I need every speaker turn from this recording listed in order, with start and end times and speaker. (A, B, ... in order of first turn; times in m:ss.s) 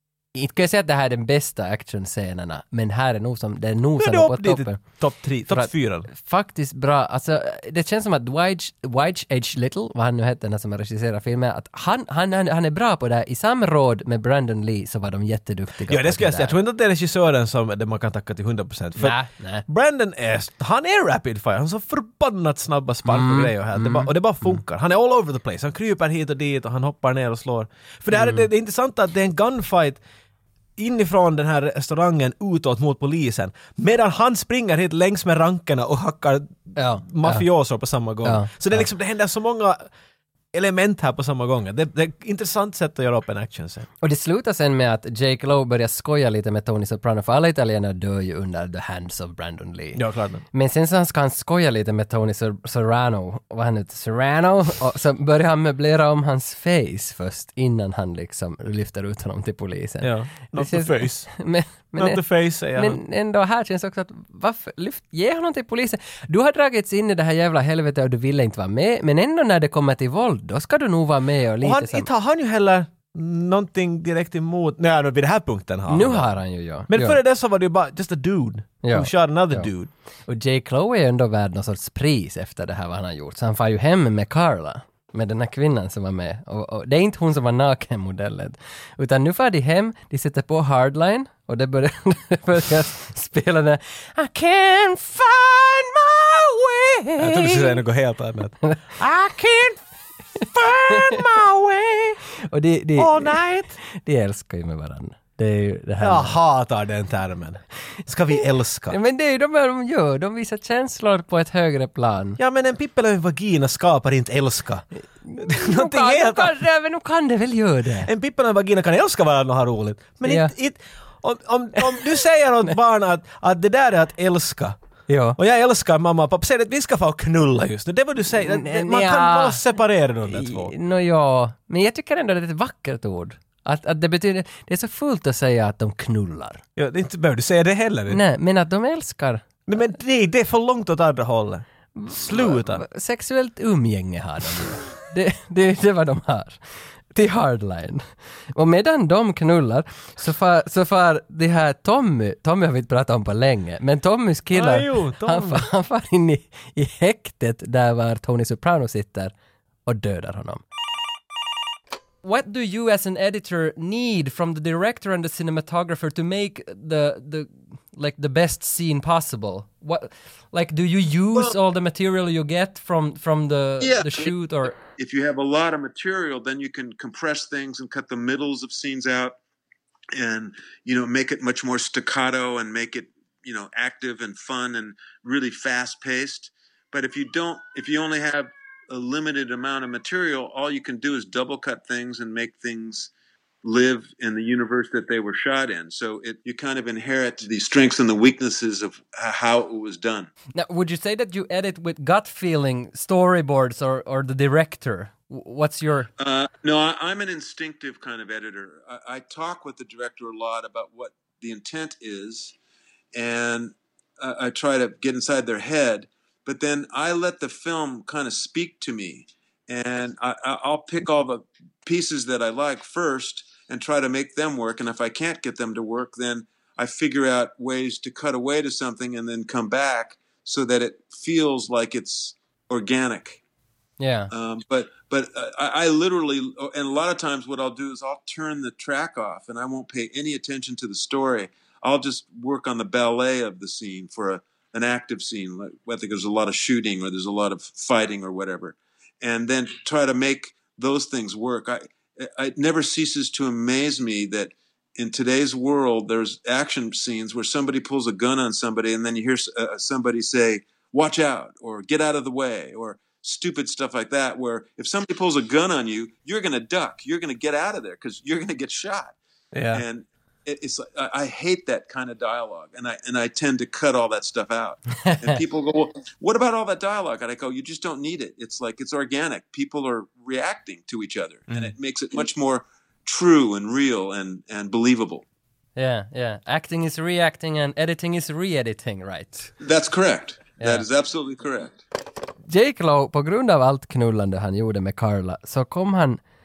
0:00.4-0:04.8 A
0:04.0-0:06.1 B
0:05.5-0:16.5 A
0:15.9-0:19.2 B
0:19.0-0:19.6 A
0:19.7-0:30.0 B
0:23.1-0:24.1 A
0:28.2-0:28.4 A
0:30.8-0:39.8 B
0:36.8-0:37.5 A
0:38.2-0:38.8 A
0:40.5-0:43.9 B
0:44.0-1:02.2 A
0:50.0-0:50.4 B
1:00.0-1:01.3 B
1:02.0-1:03.0 B
1:02.8-1:12.1 A
1:11.6-1:16.3 B
1:15.9-1:17.2 A
1:16.9-1:19.9 B
1:18.8-1:19.7 A
1:20.3-1:37.8 A
1:37.2-1:39.8 B
1:40.4-1:41.2 A
1:40.4-1:42.2 B
1:42.4-1:46.4 A
1:43.0-1:43.8 B
1:46.0-1:49.0 B
1:48.9-1:52.4 A
1:52.4-1:54.8 B
1:55.2-1:58.1 A
1:55.4-1:56.6 B
1:58.0-2:04.8 B
2:00.2-2:00.5 A
2:05.1-2:05.4 A
2:05.4-2:10.7 B
2:08.4-2:09.6 A
2:10.3-2:16.6 A
2:16.8-2:18.2 B
2:18.1-2:19.4 A
2:19.7-2:22.8 B
2:22.0-2:26.6 A
2:27.1-2:39.3 A
2:34.5-2:35.7 B
2:39.9-2:40.6 A
2:42.2-2:54.8 A
2:53.8-2:59.4 C
3:00.1-3:13.1 C
3:13.6-3:20.3 C
3:20.6-3:26.1 A
3:26.2-3:32.6 C
3:33.1-3:53.4 C
3:54.0-3:54.3 A
3:54.3-4:29.2 C
4:29.5-4:29.8 B
4:29.7-4:45.2 C
4:35.1-4:35.3 A
4:45.8-4:49.5 A
4:49.6-4:51.8 C
4:50.6-4:50.8 A
4:52.5-4:56.2 A